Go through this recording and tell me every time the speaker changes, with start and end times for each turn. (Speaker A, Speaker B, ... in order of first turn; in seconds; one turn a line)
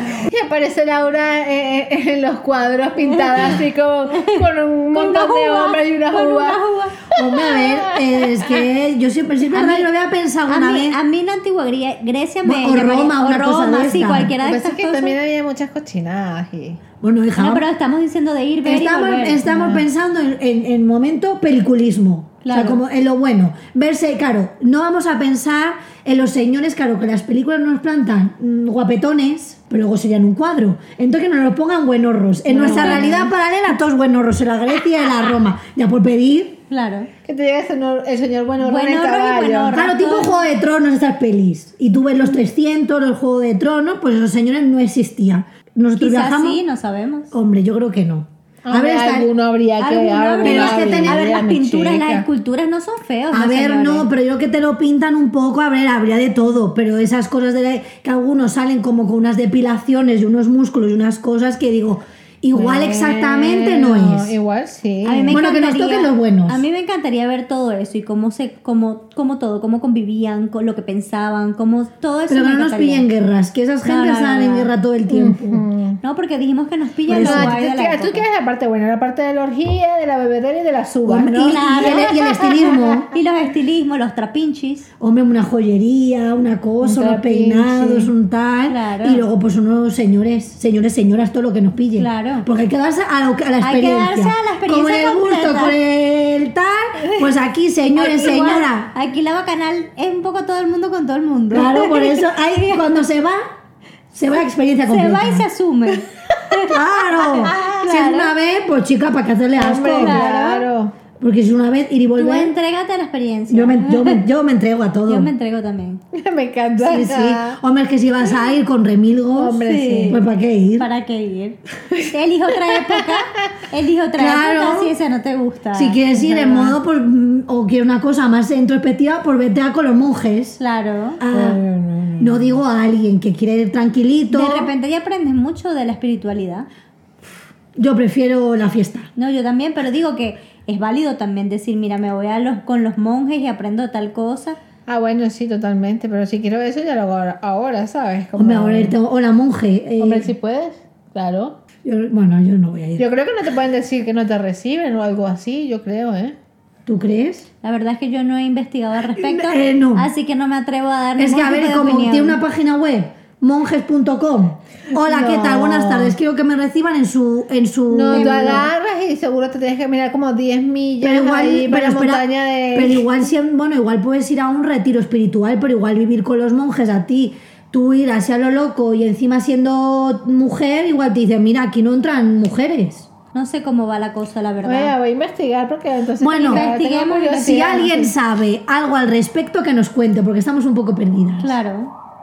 Speaker A: 0.3-8.4
Speaker B: 3.1-3.6
Speaker B: 4.1-4.4
Speaker B: 4.9-7.1
Speaker C: 7.1-11.0
Speaker B: 9.5-9.9
Speaker B: 10.5-15.2
Speaker C: 12.4-14.3
Speaker A: 14.4-16.8
Speaker C: 17.0-17.7
Speaker B: 17.4-19.5
Speaker C: 18.6-36.6
Speaker A: 19.4-19.9
Speaker B: 22.4-22.8
Speaker B: 32.5-33.3
Speaker A: 32.6-33.0
Speaker B: 36.7-37.1
Speaker A: 37.2-39.8
Speaker B: 38.6-40.3
Speaker C: 39.7-46.6
Speaker B: 46.0-47.3
Speaker C: 47.3-49.3
Speaker A: 48.6-52.2
Speaker B: 49.8-54.1
Speaker C: 50.4-51.3
Speaker C: 53.3-64.3
Speaker A: 62.5-65.4
Speaker B: 65.0-73.1
Speaker C: 65.3-66.6
Speaker C: 72.3-75.6
Speaker B: 73.8-74.7
Speaker A: 75.1-76.0
Speaker B: 76.0-78.2
Speaker C: 77.1-77.6
Speaker A: 77.2-83.0
Speaker C: 81.1-83.1
Speaker B: 81.4-84.9
Speaker C: 85.0-98.9
Speaker A: 86.8-88.1
Speaker B: 88.7-89.2
Speaker B: 92.0-92.5
Speaker B: 93.6-95.8
Speaker B: 98.0-102.8
Speaker C: 101.5-103.5
Speaker C: 104.1-105.5
Speaker B: 104.9-108.3
Speaker C: 106.6-110.2
Speaker A: 109.6-111.0
Speaker B: 109.9-110.7
Speaker C: 111.2-112.5
Speaker B: 112.2-114.2
Speaker C: 113.5-115.3
Speaker B: 115.1-116.0
Speaker A: 116.1-117.6
Speaker C: 116.8-120.9
Speaker A: 119.3-120.2
Speaker B: 119.6-120.2
Speaker B: 120.8-126.0
Speaker A: 122.7-123.1
Speaker C: 124.2-125.0
Speaker C: 125.7-130.6
Speaker A: 126.1-126.8
Speaker B: 130.6-131.2
Speaker C: 131.2-131.6
Speaker A: 131.3-132.4
Speaker C: 132.2-134.7
Speaker B: 134.3-136.7
Speaker C: 137.8-139.1
Speaker B: 139.2-144.6
Speaker A: 144.9-148.9
Speaker C: 148.4-150.3
Speaker A: 150.0-151.6
Speaker C: 151.8-153.0
Speaker A: 153.0-156.3
Speaker C: 156.9-157.5
Speaker B: 157.6-162.4
Speaker C: 159.2-160.1
Speaker C: 161.2-168.7
Speaker A: 164.9-166.2
Speaker A: 167.9-173.1
Speaker B: 168.1-168.7
Speaker C: 171.0-183.1
Speaker B: 183.3-184.9
Speaker A: 184.6-188.1
Speaker C: 186.2-186.7
Speaker B: 186.4-187.4
Speaker C: 187.3-191.5
Speaker B: 191.4-191.9